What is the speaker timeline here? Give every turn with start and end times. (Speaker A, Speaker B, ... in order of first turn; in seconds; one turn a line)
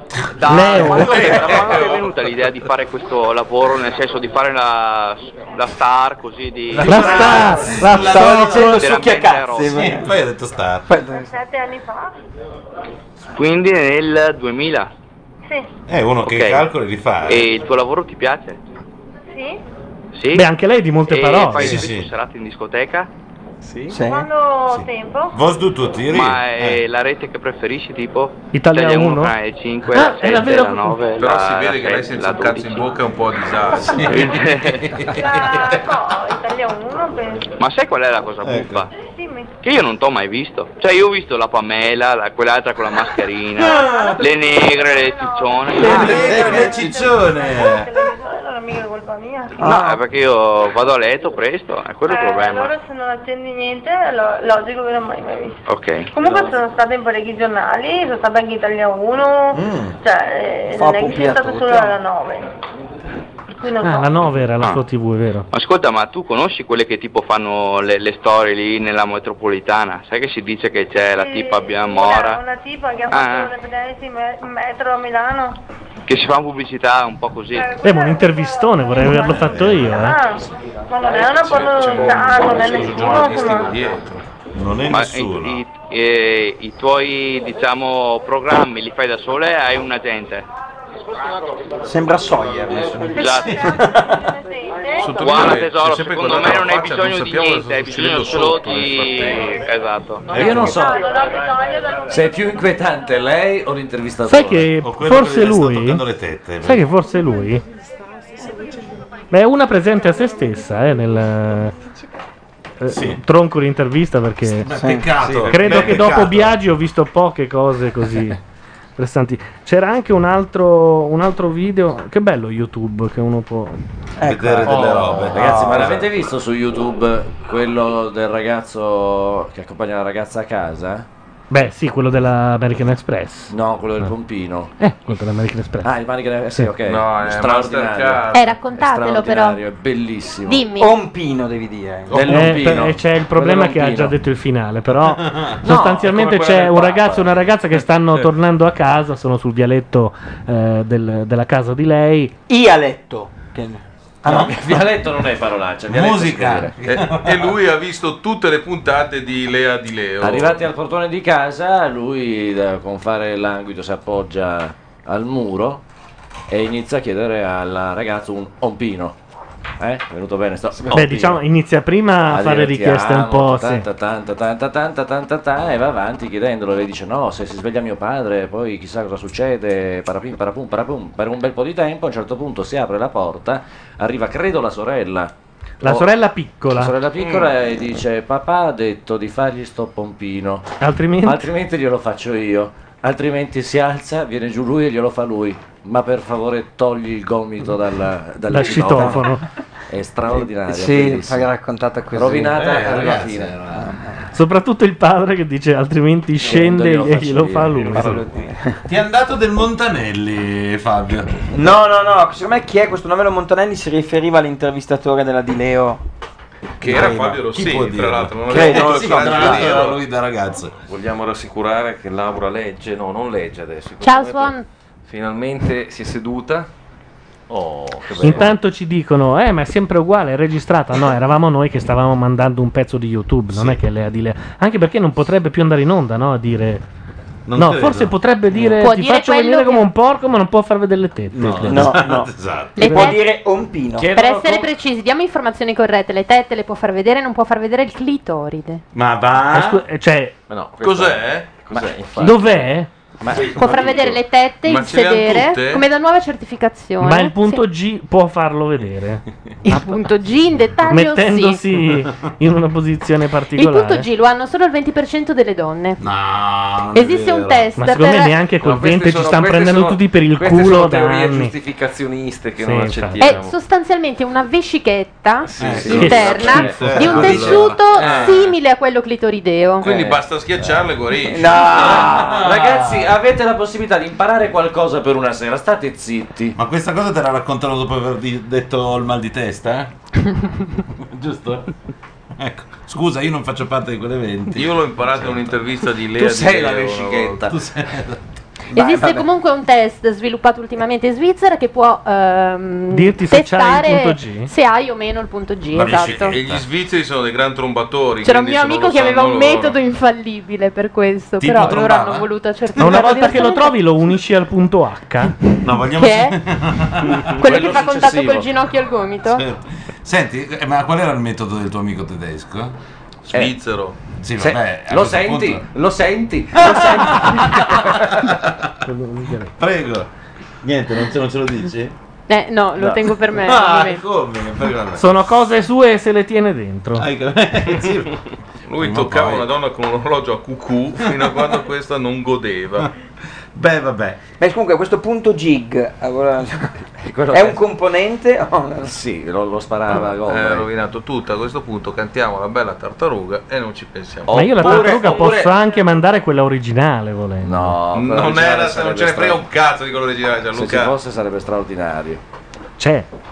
Speaker A: 0.4-7.4
Speaker B: 0.4-2.0
Speaker C: 0.5-1.3
Speaker B: 6.7-8.8
Speaker C: 6.8-8.8
Speaker D: 8.0-10.1
Speaker A: 8.7-9.8
Speaker B: 9.7-10.9
Speaker D: 10.9-11.3
Speaker E: 11.0-12.1
Speaker A: 13.3-14.9
Speaker B: 15.9-17.5
Speaker A: 16.2-16.6
Speaker A: 17.3-18.6
Speaker E: 19.3-19.6
Speaker A: 20.1-20.4
Speaker C: 20.3-21.9
Speaker A: 21.1-23.1
Speaker B: 21.5-22.1
Speaker D: 23.9-24.3
Speaker E: 24.0-25.4
Speaker B: 24.7-26.8
Speaker A: 26.1-32.9
Speaker C: 28.5-29.3
Speaker C: 29.9-31.0
Speaker F: 31.2-34.5
Speaker B: 33.7-35.8
Speaker A: 34.1-34.9
Speaker E: 35.1-37.6
Speaker A: 37.6-38.9
Speaker B: 38.4-38.9
Speaker E: 38.9-39.5
Speaker A: 39.6-46.4
Speaker B: 43.6-44.2
Speaker E: 43.8-49.6
Speaker D: 45.8-46.5
Speaker B: 45.8-47.9
Speaker D: 49.6-50.0
Speaker A: 49.6-52.7
Speaker E: 52.0-55.6
Speaker A: 55.7-56.1
Speaker E: 56.1-62.5
Speaker B: 59.5-60.0
Speaker D: 60.7-61.9
Speaker E: 63.5-64.2
Speaker C: 63.8-65.5
Speaker A: 65.5-72.4
Speaker E: 71.1-75.6
Speaker A: 73.1-73.5
Speaker A: 76.1-77.7
Speaker E: 77.5-83.8
Speaker C: 77.8-80.2
Speaker B: 79.2-80.1
Speaker F: 81.5-84.2
Speaker B: 84.5-85.6
Speaker A: 84.9-90.5
Speaker D: 91.8-94.2
Speaker A: 93.2-93.6
Speaker E: 94.1-95.4
Speaker F: 95.0-99.5
Speaker A: 95.2-100.6
Speaker G: 100.3-101.0
Speaker E: 100.7-102.1
Speaker G: 102.1-104.7
Speaker C: 104.2-106.0
Speaker B: 104.8-106.8
Speaker C: 106.6-107.6
Speaker C: 109.3-111.7
Speaker C: 112.8-114.7
Speaker B: 112.9-113.2
Speaker B: 114.7-116.5
Speaker D: 114.7-115.2
Speaker C: 115.5-118.4
Speaker C: 119.0-123.8
Speaker D: 124.2-125.0
Speaker B: 124.2-126.1
Speaker G: 124.7-131.1
Speaker C: 131.5-134.1
Speaker G: 133.5-134.7
Speaker C: 134.8-135.9
Speaker G: 135.8-140.6
Speaker F: 136.8-138.5
Speaker H: 138.3-139.6
Speaker H: 140.4-141.0
Speaker D: 140.8-142.3
Speaker B: 142.1-142.9
Speaker G: 142.1-144.1
Speaker C: 142.3-152.3
Speaker B: 145.3-145.5
Speaker G: 145.6-147.2
Speaker D: 152.5-154.4
Speaker G: 154.2-156.7
Speaker B: 154.2-154.5
Speaker B: 155.9-157.5
Speaker F: 156.8-160.7
Speaker G: 160.2-165.8
Speaker G: 166.5-169.2
Speaker G: 169.8-171.4
Speaker C: 170.9-173.8
Speaker G: 172.2-185.3
Speaker C: 185.8-186.9
Speaker G: 185.8-186.1
Speaker G: 186.7-190.7
Speaker F: 187.2-187.5
Speaker C: 190.8-191.4
Speaker G: 191.2-199.3
Speaker C: 198.5-199.4
Speaker D: 198.8-199.2
Speaker G: 199.9-201.5
Speaker D: 200.3-202.6
Speaker G: 202.1-203.6
Speaker B: 202.5-203.9
Speaker D: 203.7-204.1
Speaker C: 204.3-208.2
Speaker G: 206.4-208.2
Speaker D: 207.9-208.8
Speaker B: 208.9-211.4
Speaker D: 211.5-216.0
Speaker F: 216.8-220.0
Speaker B: 216.8-220.7
Speaker D: 216.9-217.4
Speaker D: 218.5-219.8
Speaker I: 220.9-224.6
Speaker H: 224.0-224.7
Speaker I: 225.1-226.7
Speaker I: 227.5-228.5
Speaker C: 228.2-236.8
Speaker B: 237.4-238.1
Speaker C: 237.6-242.1
Speaker H: 238.7-239.8
Speaker B: 241.3-242.9
Speaker D: 241.6-242.3
Speaker H: 242.8-243.2
Speaker D: 242.8-244.2
Speaker C: 242.9-243.1
Speaker G: 244.0-244.7
Speaker H: 244.0-248.8
Speaker B: 248.9-249.8
Speaker C: 249.5-250.3
Speaker I: 250.5-252.7
Speaker F: 250.8-251.5
Speaker G: 251.7-252.6
Speaker C: 252.2-252.9
Speaker G: 253.2-254.2
Speaker H: 253.5-257.6
Speaker F: 254.6-255.8
Speaker C: 257.0-259.2
Speaker H: 259.6-261.6
Speaker C: 260.9-264.1
Speaker H: 263.6-266.0
Speaker B: 266.0-267.7
Speaker H: 266.9-268.3
Speaker C: 267.8-271.5
Speaker I: 268.6-273.5
Speaker C: 272.6-273.4
Speaker H: 273.2-280.0
Speaker I: 275.5-277.2
Speaker B: 275.6-278.2
Speaker G: 275.7-276.6
Speaker C: 275.9-277.4
Speaker G: 277.2-277.5
Speaker F: 277.9-278.5
Speaker F: 279.8-282.1
Speaker G: 279.9-280.2
Speaker D: 281.2-282.3
Speaker G: 281.7-286.5
Speaker B: 282.1-283.1
Speaker B: 286.6-289.9
Speaker B: 290.9-291.7
Speaker B: 292.4-295.6
Speaker F: 294.5-297.5
Speaker G: 296.2-297.5
Speaker B: 297.5-298.2
Speaker H: 298.7-306.4
Speaker D: 298.7-299.3
Speaker C: 302.9-304.5
Speaker B: 305.7-306.6
Speaker F: 305.9-309.8
Speaker H: 308.2-313.7
Speaker B: 311.4-312.3
Speaker C: 312.8-315.3
Speaker B: 315.6-317.5
Speaker H: 315.9-316.4
Speaker G: 317.1-318.5
Speaker H: 317.4-319.4
Speaker B: 319.3-322.7
Speaker F: 323.3-323.9
Speaker B: 324.2-325.6
Speaker G: 324.4-327.9
Speaker B: 326.6-328.5
Speaker C: 328.9-329.5
Speaker B: 329.6-330.1
Speaker B: 330.6-331.9
Speaker H: 332.3-334.0
Speaker B: 333.3-335.2
Speaker C: 335.0-337.1
Speaker B: 337.0-338.2
Speaker F: 338.7-342.9
Speaker B: 338.8-339.4
Speaker B: 343.5-344.2
Speaker D: 344.4-346.8
Speaker G: 347.0-347.6
Speaker D: 347.3-348.9
Speaker G: 348.8-350.7
Speaker F: 350.2-355.0
Speaker G: 354.3-355.6
Speaker C: 354.3-357.8
Speaker G: 357.4-359.4
Speaker F: 357.9-360.9
Speaker G: 360.5-362.2
Speaker C: 362.8-363.1